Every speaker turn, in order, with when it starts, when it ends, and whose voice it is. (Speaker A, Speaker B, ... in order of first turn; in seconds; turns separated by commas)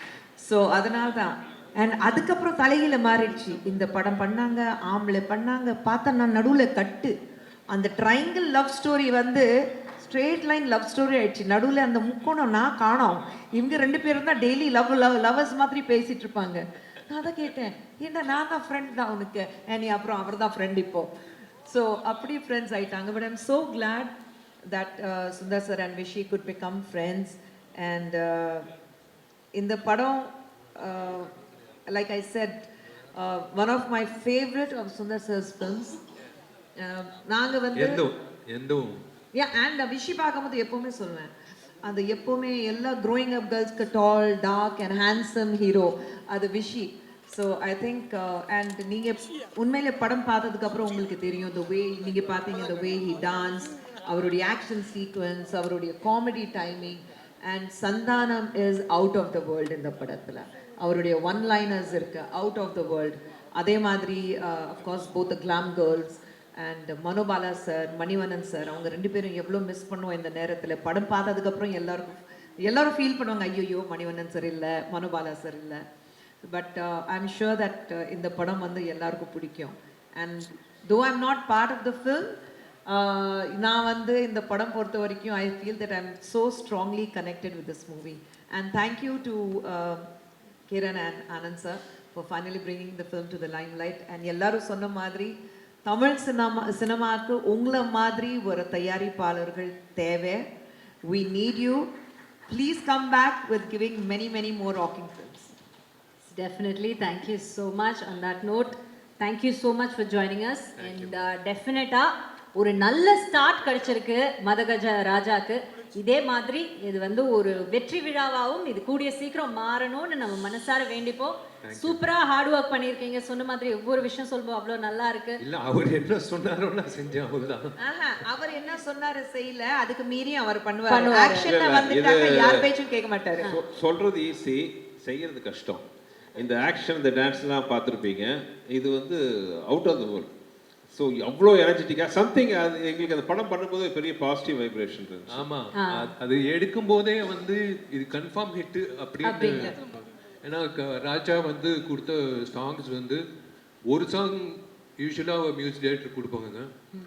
Speaker A: 0.4-7.1, Speaker A: 7.7-21.1, Speaker A: 21.7-24.1, Speaker A: 24.7-28.7, Speaker A: 29.5-31.3, Speaker A: 31.9-36.0, Speaker A: 36.8-38.0, Speaker B: 37.7-39.0, Speaker A: 39.3-41.3, Speaker A: 41.8-75.8, Speaker A: 76.5-82.3, Speaker A: 82.9-90.1, Speaker A: 90.7-100.5, Speaker A: 101.0-101.9, Speaker A: 102.5-105.5, Speaker C: 106.3-125.4, Speaker B: 121.6-122.0, Speaker B: 125.4-127.7, Speaker A: 127.8-133.5, Speaker C: 130.9-131.5, Speaker D: 131.3-132.7, Speaker D: 133.4-135.8, Speaker D: 136.3-140.3, Speaker D: 140.9-145.5, Speaker B: 145.3-153.2, Speaker C: 145.7-146.1, Speaker C: 149.2-149.7, Speaker B: 153.9-156.7